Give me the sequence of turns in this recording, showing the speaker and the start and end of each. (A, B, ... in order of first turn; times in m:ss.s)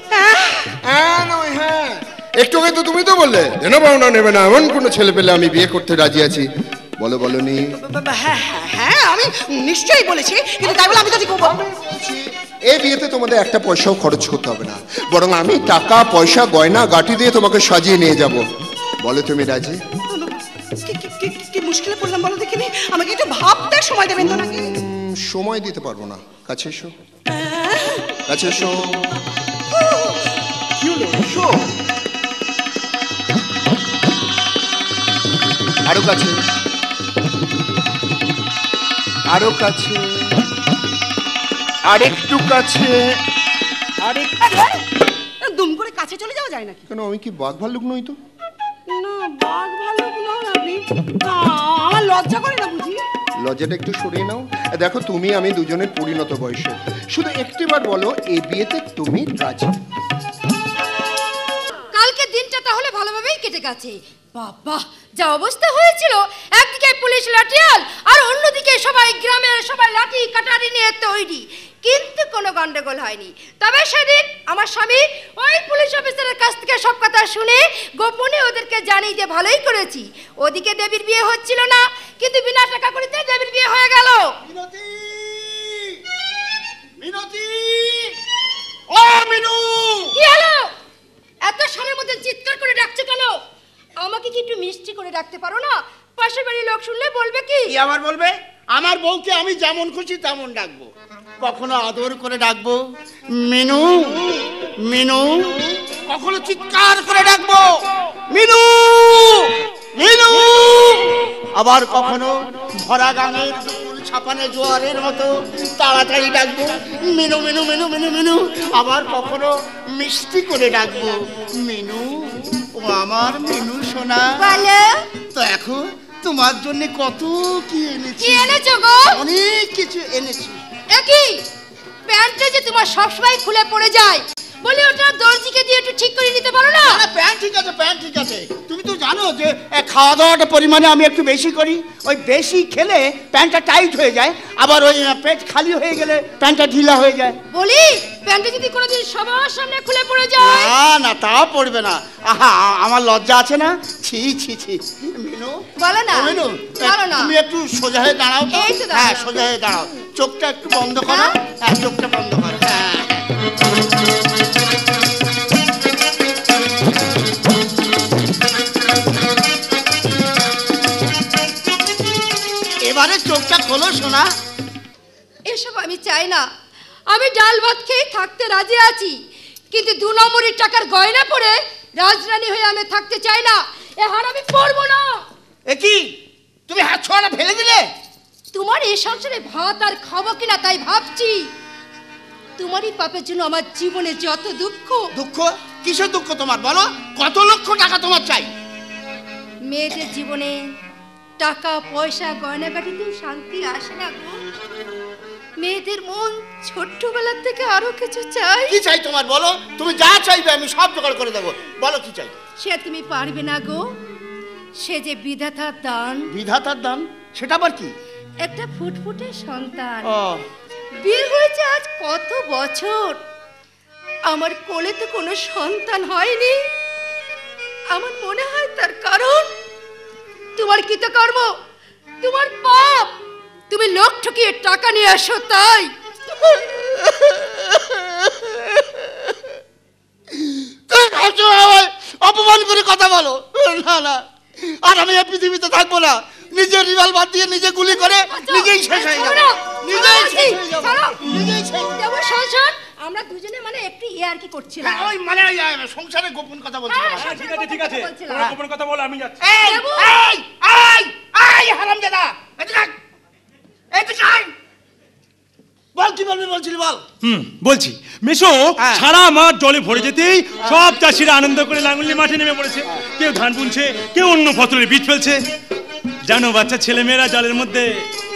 0:00.1-0:00.7 A
0:00.8-0:06.5 B
0:07.0-0:07.7 B
0:07.7-0:11.6 A
0:11.0-0:18.4 B
0:19.0-0:19.8 B
0:20.1-0:24.7 A
0:24.2-0:26.9 B
0:27.3-0:28.1 A
0:28.3-0:29.0 B
0:30.8-0:31.6 B
0:35.9-0:36.4 B
0:39.3-0:40.4 B
0:41.9-0:43.0 B
0:44.0-0:44.8 A
0:45.4-0:46.8 A
0:46.9-0:48.2 B
0:48.9-0:53.0 A
0:53.4-0:59.8 B
1:01.9-1:24.3 C
1:24.5-1:26.0 D
1:27.0-1:28.1 D
1:28.9-1:30.2 D
1:30.1-1:30.7 C
1:31.5-1:33.4 C
1:34.0-1:37.7 C
1:37.7-1:40.9 D
1:41.4-1:42.8 D
1:43.4-1:47.7 D
1:48.3-2:04.6 D
2:04.3-2:04.9 C
2:05.3-2:08.6 D
2:08.2-2:09.2 C
2:09.1-2:10.6 D
2:11.0-2:11.4 C
2:12.1-2:17.0 C
2:16.8-2:27.4 D
2:27.5-2:30.7 C
2:30.4-2:43.2 D
2:35.8-2:37.4 C
2:38.5-2:39.6 C
2:41.0-2:41.4 C
2:52.8-2:54.3 D
2:55.5-2:56.4 C
2:57.1-2:59.2 C
2:59.7-3:05.2 C
3:05.7-3:06.1 D
3:06.7-3:07.9 D
3:08.5-3:11.5 C
3:12.6-3:15.0 C
3:15.2-3:18.5 D
3:19.7-3:20.6 C
3:21.4-3:24.4 C
3:25.6-3:28.8 C
3:28.7-3:32.3 D
3:32.6-3:33.8 C
3:34.8-3:36.2 C
3:36.3-3:37.9 D
3:38.4-3:40.1 C
3:40.0-3:40.4 D
3:41.0-3:43.2 C
3:44.3-3:46.6 C
3:47.9-3:49.5 C
3:50.6-3:51.5 C
3:52.2-3:53.1 C
3:53.7-3:55.9 C
3:58.3-3:58.8 D
4:00.9-4:12.1 D
4:08.3-4:11.2 C
4:11.9-4:15.1 C
4:14.8-4:17.5 D
4:16.9-4:18.5 C
4:17.2-4:19.4 E
4:18.3-4:18.6 D
4:19.4-4:22.9 D
4:19.6-4:20.2 C
4:23.9-4:24.5 D
4:26.0-4:27.0 D
4:27.2-4:35.4 E
4:28.8-4:29.1 D
4:36.3-4:37.9 E